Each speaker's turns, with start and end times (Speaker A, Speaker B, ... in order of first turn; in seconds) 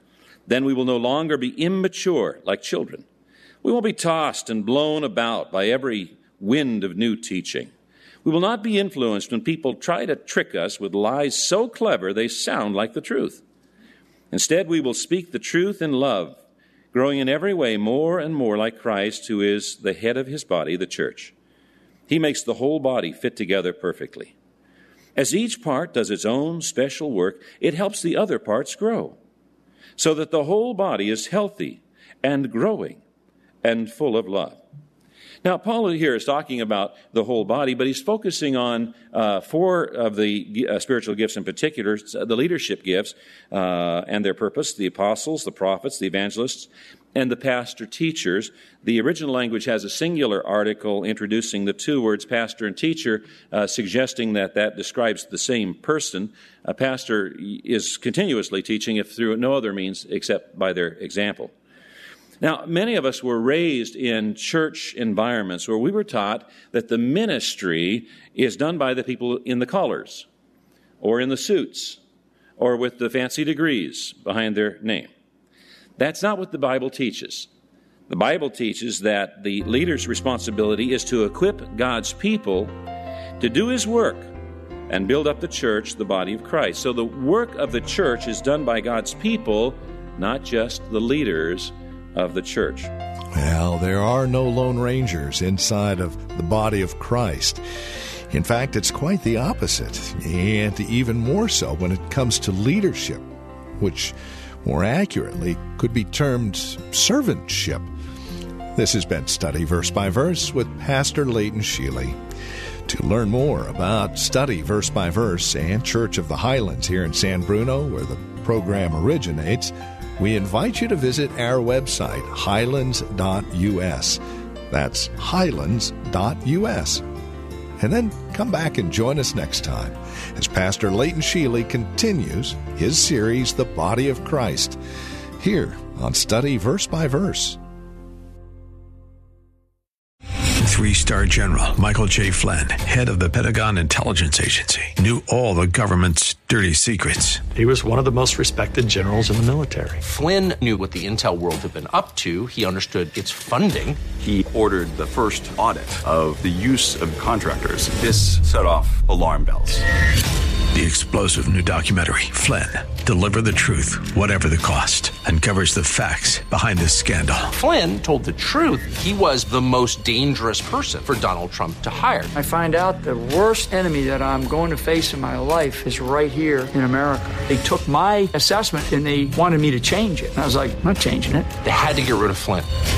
Speaker A: 0.5-3.1, 3.6-7.7, 8.2-13.4, 14.3-16.4, 16.9-21.3, 22.1-24.3, 25.2-29.2, 30.0-33.0, 33.6-34.6, 35.4-61.5, 62.4-70.3, 71.0-72.0, 72.6-75.1, 76.0-77.5, 78.1-82.7, 83.4-84.3, 84.9-92.9
Speaker B: 93.3-97.6, 98.3-103.2, 103.8-107.9, 108.8-112.2, 112.9-124.2, 124.7-127.0, 127.8-134.8, 135.4-137.6
Speaker C: 140.6-147.5, 160.7-167.5
Speaker D: 147.5-150.0
Speaker E: 150.0-154.0, 167.5-172.3, 181.6-182.7
Speaker F: 154.2-159.8
Speaker G: 172.3-181.5